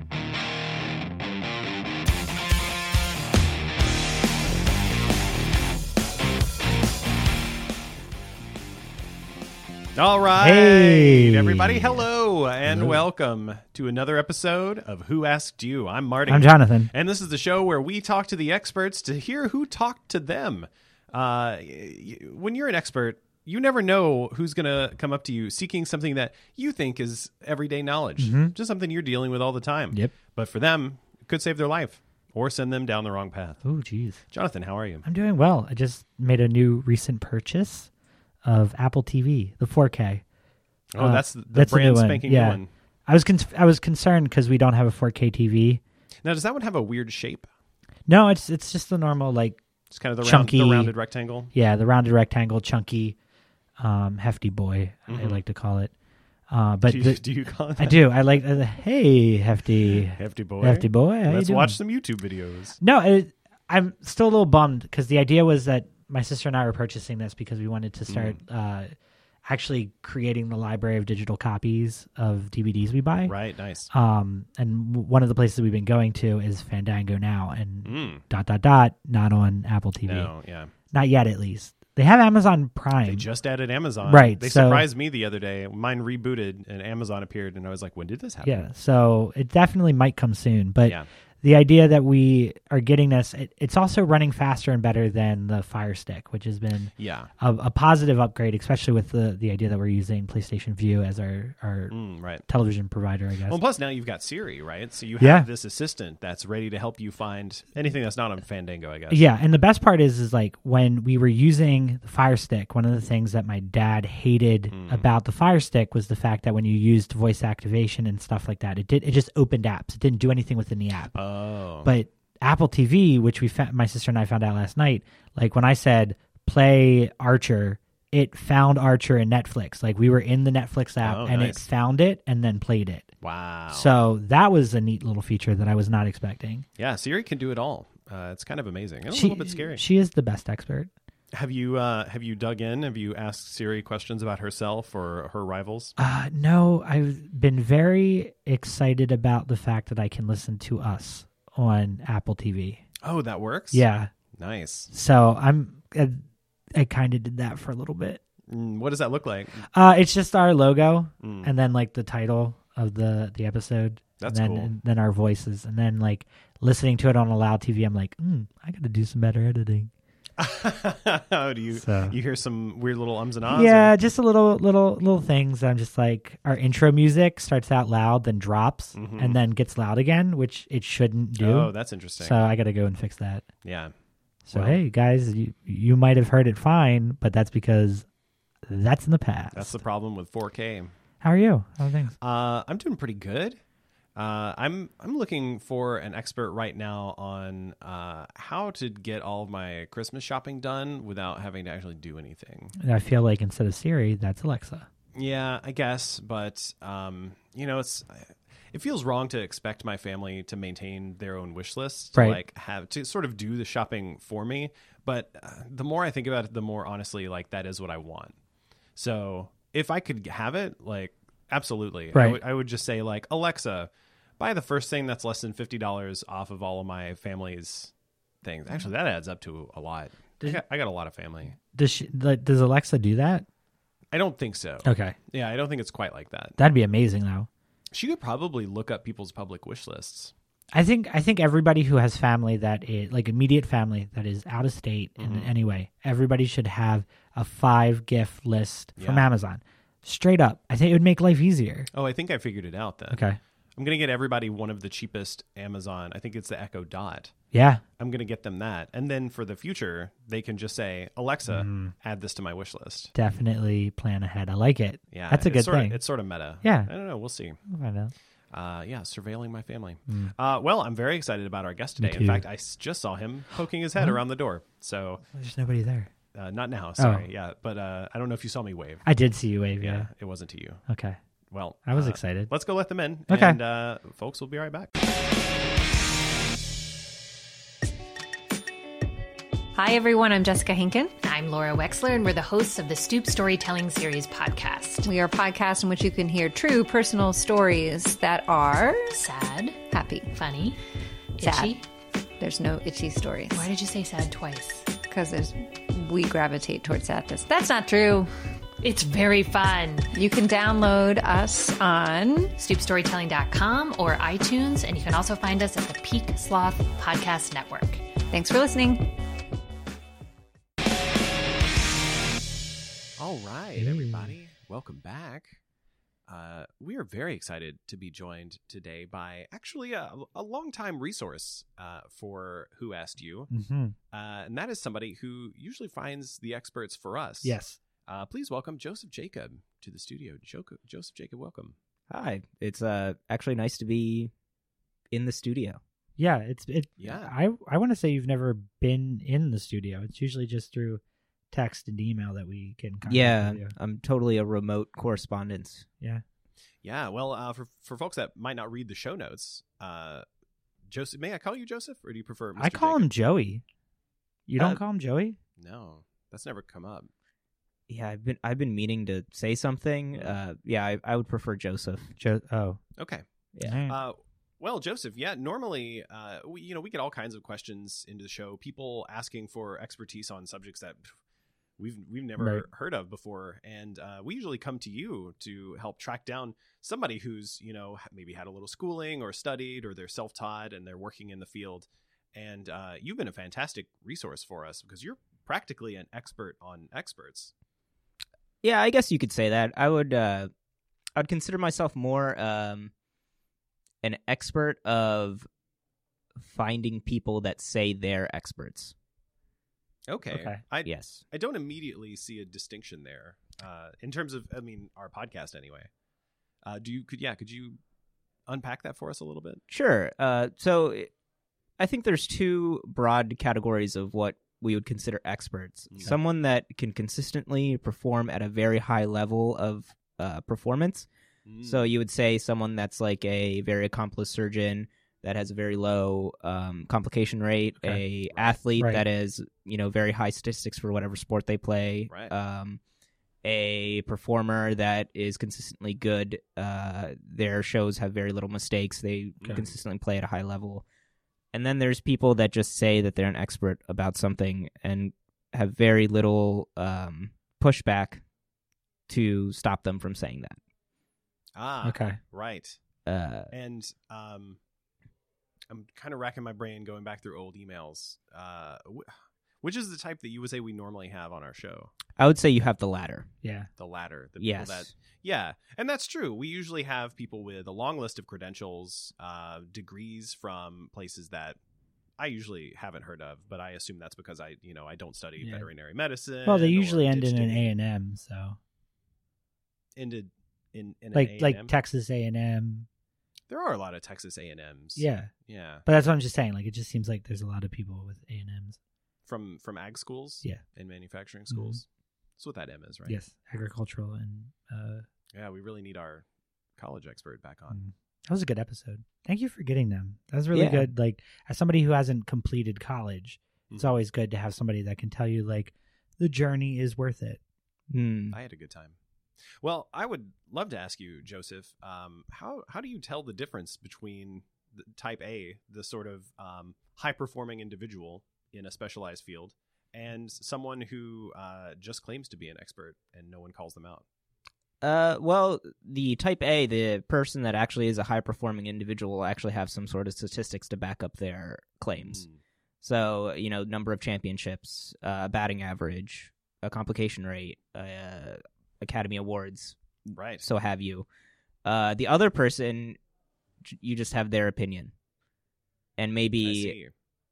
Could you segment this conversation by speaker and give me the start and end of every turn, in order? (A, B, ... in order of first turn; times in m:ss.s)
0:10.0-0:33.6 A
0:10.4-0:12.0 B
0:12.7-0:13.0 B
0:16.3-0:16.9 B
0:28.2-0:28.6 B
0:33.6-0:34.2 B
0:34.3-0:35.0 A
0:35.0-0:37.9 B
0:38.4-0:40.2 B
0:40.9-0:42.7 A
0:41.0-0:45.8 B
0:46.2-0:47.5 A
0:48.1-0:49.6 B
0:49.9-0:51.5 A
0:50.2-0:51.0 B
0:51.5-0:53.2 B
0:53.8-0:55.9 B
0:55.1-0:55.4 A
0:56.5-0:57.2 B
0:56.8-0:58.0 A
0:57.8-1:01.8 B
0:59.8-1:02.8 A
1:02.8-1:08.9 B
1:08.1-1:08.4 A
1:09.4-1:13.4 B
1:13.3-1:13.9 A
1:13.9-1:20.3 B
1:17.8-1:18.2 A
1:20.0-1:20.7 A
1:20.9-1:23.3 B
1:23.0-1:28.7 A
1:24.0-1:24.9 B
1:28.4-1:43.6 B
1:37.0-1:37.3 A
1:41.9-1:42.5 A
1:43.5-1:49.2 A
1:45.2-1:45.5 B
1:49.1-2:01.2 B
1:54.7-1:55.1 A
2:01.2-2:01.9 A
2:01.8-2:13.1 B
2:11.0-2:11.6 A
2:13.2-2:13.9 A
2:13.7-2:16.7 B
2:16.8-2:19.8 A
2:19.1-2:20.9 B
2:21.3-2:25.9 A
2:26.0-2:32.8 B
2:33.0-2:34.9 A
2:33.7-2:34.1 B
2:34.9-2:36.2 B
2:36.7-2:38.2 B
2:38.5-2:39.6 A
2:39.7-2:49.9 B
2:41.2-2:41.5 A
2:44.2-2:44.7 A
2:50.4-2:53.9 A
2:51.7-2:52.2 B
2:53.5-3:03.4 B
2:58.9-2:59.4 A
3:01.4-3:02.4 A
3:03.6-3:03.9 A
3:04.4-3:08.1 B
3:04.5-3:04.8 A
3:08.7-3:09.8 B
3:09.5-3:10.9 A
3:11.2-3:12.2 B
3:12.2-3:13.6 A
3:14.2-3:22.7 A
3:22.8-3:24.9 B
3:25.2-3:38.4 A
3:32.2-3:32.4 B
3:39.0-3:51.6 A
3:42.1-3:42.4 B
3:51.7-3:53.5 B
3:54.1-3:56.6 A
3:54.8-3:55.2 B
3:56.6-3:57.5 B
3:57.9-4:00.3 A
4:00.7-4:11.9 B
4:05.2-4:05.5 A
4:09.0-4:09.3 A
4:11.9-4:17.4 A
4:13.1-4:13.4 B
4:17.5-4:17.8 B
4:18.0-4:23.1 A
4:21.5-4:21.9 B
4:23.1-4:26.0 B
4:25.1-4:27.6 A
4:26.6-4:26.9 B
4:27.7-4:28.1 B
4:28.5-4:35.2 A
4:30.1-4:30.3 B
4:32.0-4:32.5 B
4:34.0-4:34.2 B
4:35.3-4:36.1 B
4:36.3-4:39.0 A
4:37.0-4:37.3 B
4:39.1-4:40.1 B
4:39.8-4:40.8 A
4:40.9-4:41.2 B
4:41.5-4:44.9 A
4:41.9-4:42.5 B
4:43.3-4:43.6 B
4:49.8-4:51.1 C
4:51.2-4:55.1 D
4:55.0-4:59.2 C
4:59.2-5:00.8 D
4:59.9-5:00.4 C
5:01.4-5:01.8 D
5:01.4-5:01.8 C
5:02.4-5:03.7 C
5:03.5-5:05.0 D
5:05.0-5:08.3 C
5:08.8-5:10.1 D
5:10.1-5:12.6 C
5:12.6-5:18.0 D
5:18.3-5:19.0 C
5:23.2-5:25.6 A
5:23.8-5:24.4 B
5:26.3-5:33.5 A
5:33.5-5:34.0 B
5:34.1-5:41.8 A
5:37.4-5:37.8 B
5:42.1-5:44.3 E
5:45.1-5:45.8 E
5:46.2-5:53.7 B
5:47.0-5:47.3 A
5:53.1-5:55.9 E
5:56.8-6:00.3 A
6:00.9-6:03.1 A
6:02.6-6:03.6 B
6:04.5-6:05.4 B
6:05.6-6:07.1 A
6:07.9-6:12.1 E
6:12.2-6:12.8 B
6:13.0-6:13.2 A
6:13.6-6:14.0 B
6:13.9-6:21.1 A
6:21.8-6:37.5 A
6:22.4-6:22.6 B
6:38.6-6:40.5 E
6:41.2-6:42.9 E
6:44.0-6:45.5 E
6:46.4-6:48.9 E
6:50.1-6:55.9 A
6:50.3-6:50.6 B
6:50.8-6:51.2 E
6:56.6-6:57.8 A
6:58.5-6:59.6 A
6:59.7-7:01.1 E
7:01.8-7:11.1 E
7:05.9-7:06.2 A
7:11.5-7:11.8 A
7:11.6-7:22.8 E
7:18.3-7:18.6 A
7:18.8-7:19.0 B
7:23.4-7:30.8 E
7:29.4-7:29.8 A
7:31.5-7:38.2 E
7:39.1-7:40.6 E
7:41.6-7:42.8 A
7:41.8-7:42.2 B
7:43.1-7:43.5 E
7:43.5-7:44.6 A
7:45.7-7:51.9 A
7:52.2-7:53.3 E
7:53.4-7:53.7 B
7:53.8-8:01.6 A
7:54.4-7:54.9 E
8:02.2-8:07.7 A
8:05.4-8:05.7 B
8:06.4-8:08.6 B
8:10.0-8:11.7 A
8:11.1-8:12.9 B
8:13.5-8:15.8 A
8:15.0-8:15.3 B
8:15.8-8:18.8 B
8:19.3-8:21.8 A
8:21.5-8:21.8 B
8:22.4-8:23.2 A
8:23.1-8:25.0 B
8:25.3-8:26.2 A
8:26.8-8:27.8 A
8:27.7-8:37.4 B
8:30.5-8:30.9 E
8:37.9-8:38.4 E
8:38.3-8:54.0 A
8:54.8-9:02.2 E
9:02.0-9:02.4 A
9:02.8-9:09.8 E
9:10.1-9:10.5 A
9:10.4-9:11.1 E
9:11.6-9:13.0 E
9:13.6-9:14.9 E
9:16.0-9:16.8 E
9:16.4-9:16.9 A